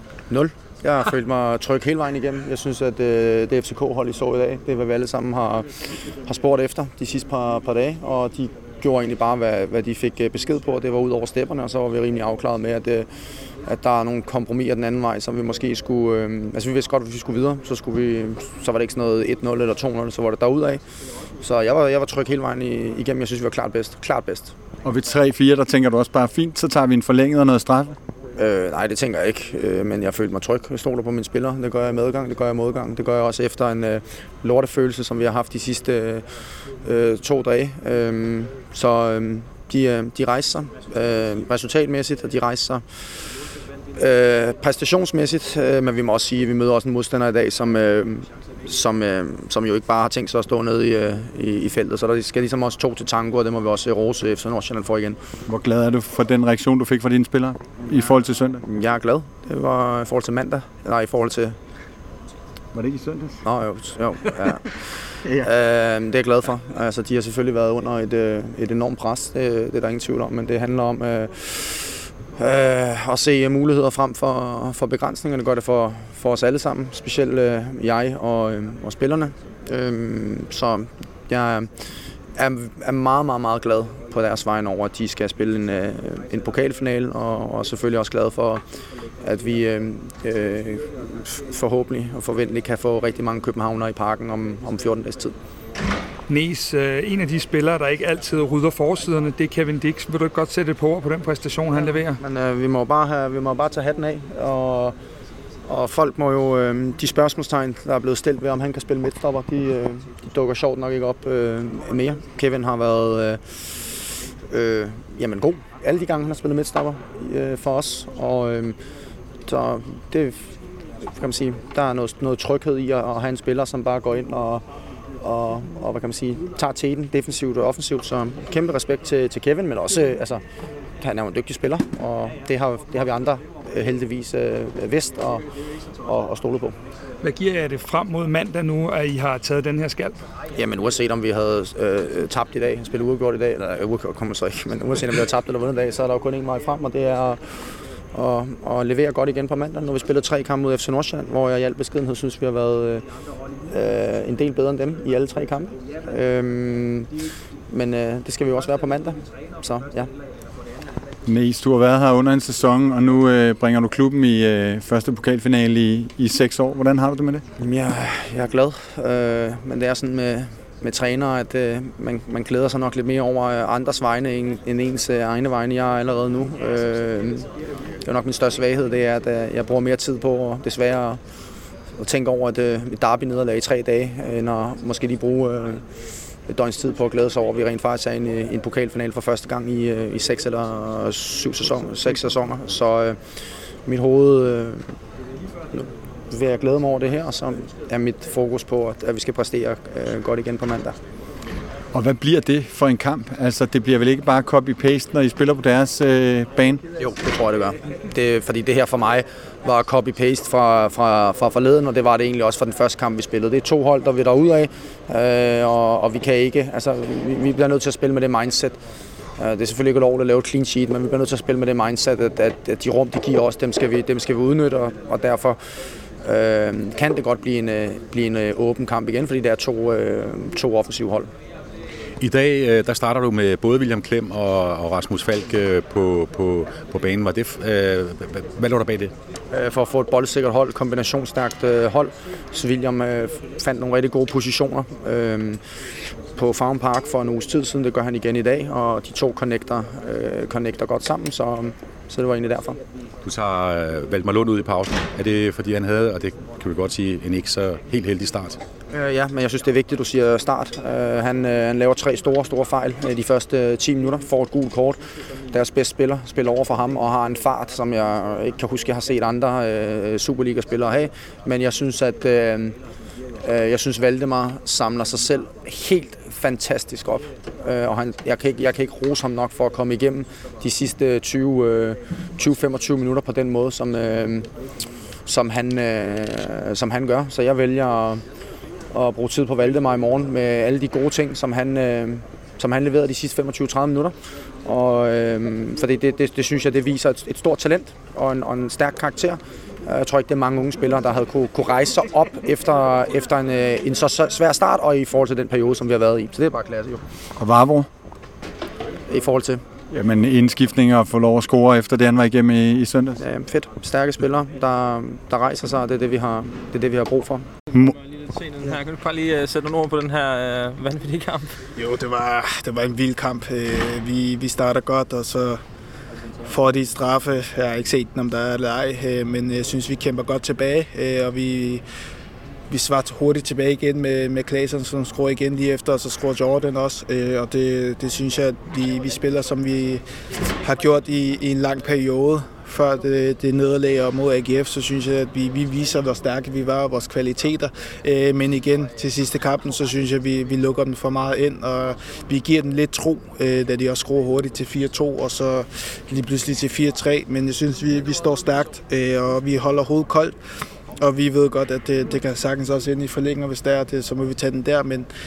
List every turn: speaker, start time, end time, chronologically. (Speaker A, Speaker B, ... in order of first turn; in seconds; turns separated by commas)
Speaker A: 0.3-13.1, Speaker A: 13.6-20.8, Speaker A: 21.4-24.5, Speaker B: 24.8-28.0, Speaker A: 28.4-43.4, Speaker A: 43.9-55.2, Speaker B: 55.5-58.6, Speaker A: 58.6-61.6, Speaker B: 62.7-63.4, Speaker A: 63.4-88.6, Speaker A: 89.2-95.3, Speaker C: 96.3-102.2, Speaker A: 102.2-105.0, Speaker A: 105.7-118.8, Speaker A: 119.5-124.7, Speaker A: 125.2-130.4, Speaker A: 131.0-135.5, Speaker A: 136.0-136.8, Speaker C: 137.2-140.2, Speaker A: 140.6-153.1, Speaker A: 153.7-157.2, Speaker A: 157.7-160.1, Speaker B: 161.3-167.4, Speaker A: 167.6-177.5, Speaker A: 178.0-181.2, Speaker A: 182.0-185.8, Speaker A: 186.5-194.9, Speaker A: 195.7-201.0, Speaker B: 201.9-206.8, Speaker A: 207.0-218.8, Speaker A: 219.4-225.6, Speaker A: 226.2-231.3, Speaker D: 232.2-239.1, Speaker A: 239.5-252.8, Speaker D: 253.2-258.6, Speaker A: 258.9-272.8, Speaker A: 273.4-284.5, Speaker A: 285.2-288.3, Speaker A: 288.9-307.0, Speaker B: 307.4-307.9, Speaker A: 309.1-309.6, Speaker B: 309.9-313.2, Speaker A: 313.2-317.5, Speaker E: 317.8-321.5, Speaker F: 321.8-325.6, Speaker F: 326.4-331.8, Speaker F: 332.7-340.0, Speaker F: 340.6-360.4, Speaker F: 361.0-365.1